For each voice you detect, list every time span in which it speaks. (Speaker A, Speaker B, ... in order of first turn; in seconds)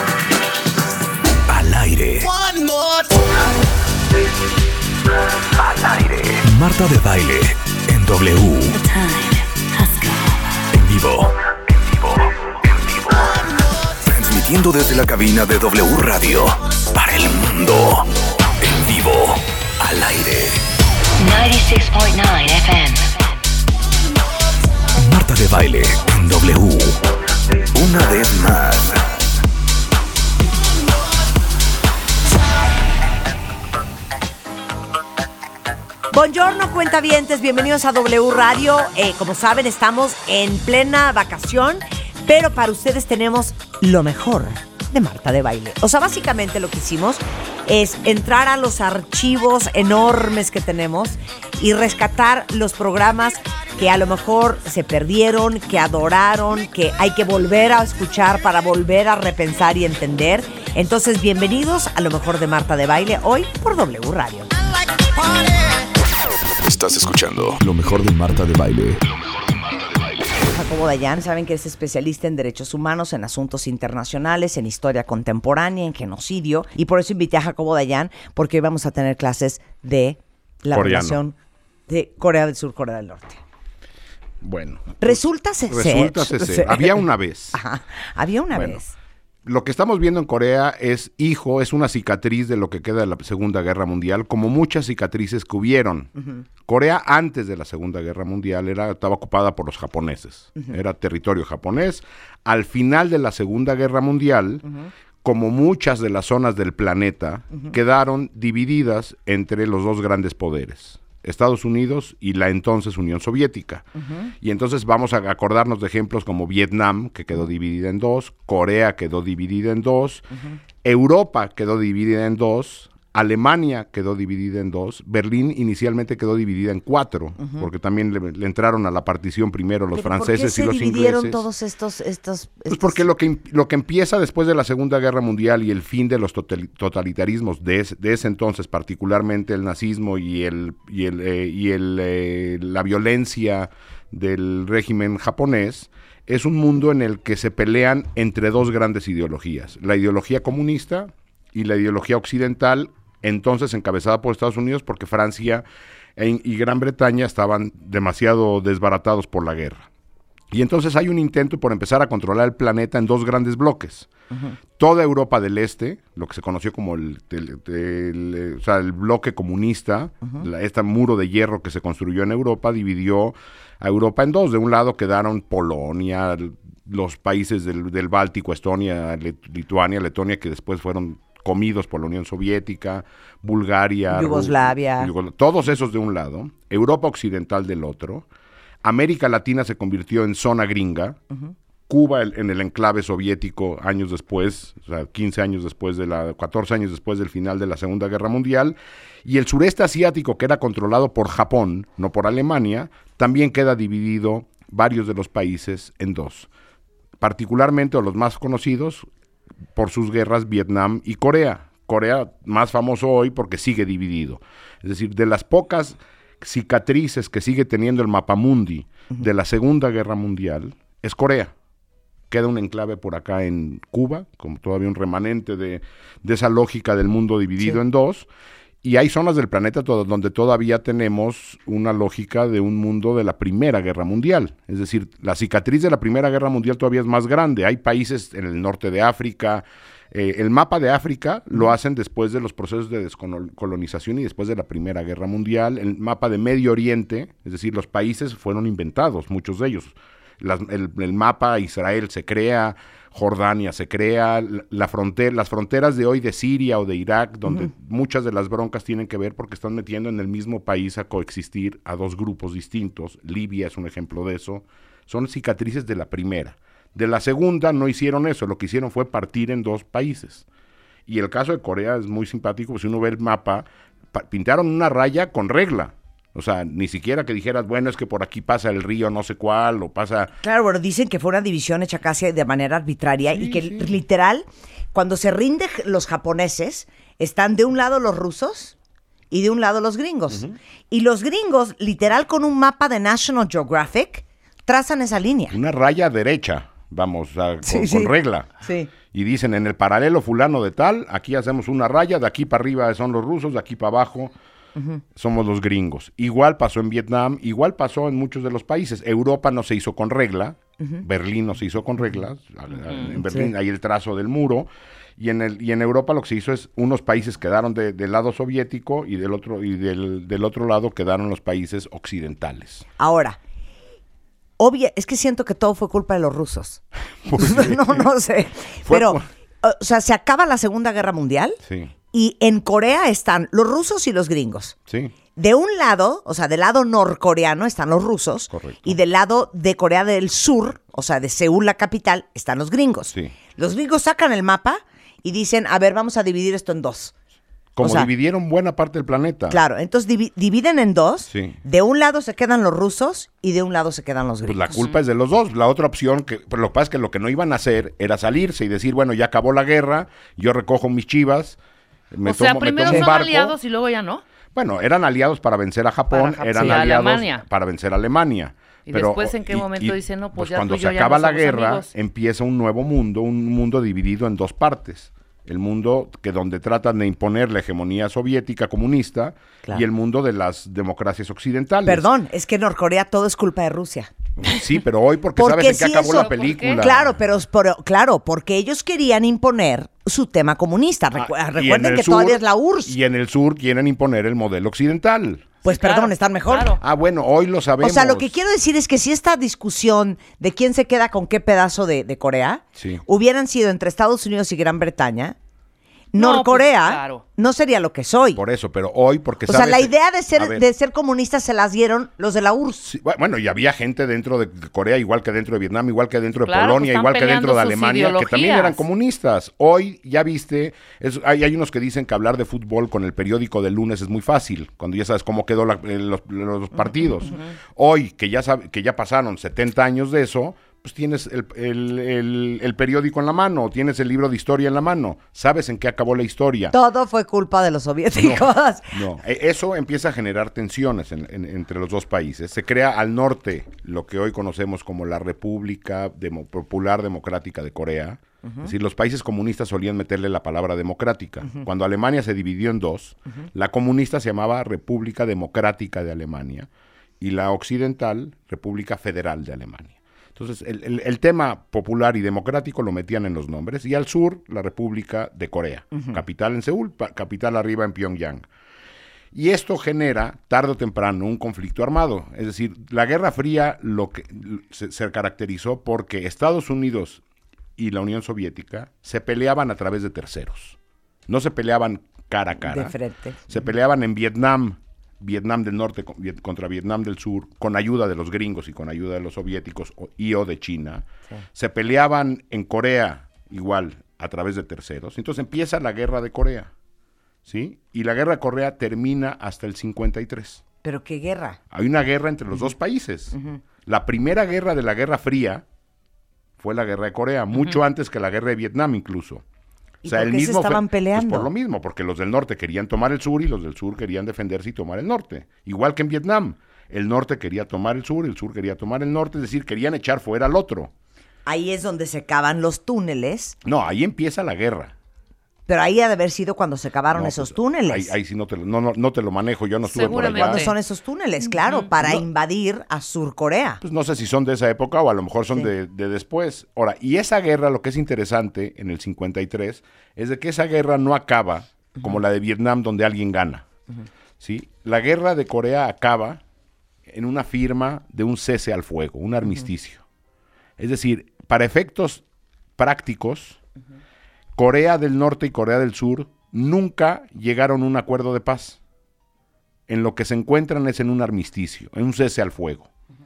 Speaker A: 1.5-2.4, 5.5-8.8, 10.7-13.4, 14.0-20.6, 25.0-27.1, 27.6-29.1, 66.6-69.1
Speaker B: 2.5-3.0, 8.9-10.1, 21.2-23.2
Speaker C: 36.1-64.5, 70.5-81.4, 81.9-83.4, 85.0-86.9, 87.5-88.9, 114.1-114.3, 129.9-133.1, 184.1-185.1, 280.4-288.8, 289.3-295.6, 297.6-298.9, 313.2-313.5, 323.0-323.4, 324.6-326.8, 327.4-331.6, 332.1-334.8, 335.4-347.1, 347.8-348.1, 349.5-354.8, 381.9-384.1, 385.4-392.9, 395.6-396.8, 397.8-405.4, 406.1-408.4, 409.5-412.9, 436.7-439.1, 482.6-483.5, 500.8-501.6, 510.0-511.5, 521.5-523.6, 525.7-528.1, 530.1-533.8
Speaker D: 80.7-81.2, 84.4-87.6, 88.5-88.8, 89.5-96.1, 96.7-104.7, 105.2-113.9, 114.4-120.3, 120.8-131.5, 132.7-155.7, 156.2-159.9, 160.5-164.1, 164.8-188.3, 188.8-191.2, 191.9-206.5, 207.2-209.1, 209.8-221.5, 222.3-228.3, 228.8-270.4, 271.1-280.3, 283.4-283.9, 290.3-290.6, 295.5-304.3, 305.1-322.9, 327.2-328.1, 328.8-329.2, 331.6-331.9, 334.9-335.1, 338.5-339.0, 347.7-349.6, 351.3-351.6, 354.4-361.6, 362.1-363.6, 364.5-382.1, 384.4-387.2, 391.2-395.6, 396.8-398.3, 402.8-403.0, 408.4-410.6, 412.9-436.7, 438.2-456.7, 457.2-468.4, 469.3-477.2, 477.8-480.8, 481.3-483.0, 483.5-496.7, 497.5-500.6, 501.7-505.6, 506.6-509.4, 510.1-520.9, 523.6-524.9, 527.1-530.7, 532.0-532.2, 533.8-543.7, 544.4-546.4, 547.1-550.0, 550.8-552.2, 552.8-553.6, 554.5-558.8, 559.9-562.9
Speaker E: 362.2-364.2, 366.1-367.4, 368.9-371.9, 386.0-386.9, 395.7-396.8, 406.2-407.2, 416.5-418.8, 529.9-530.8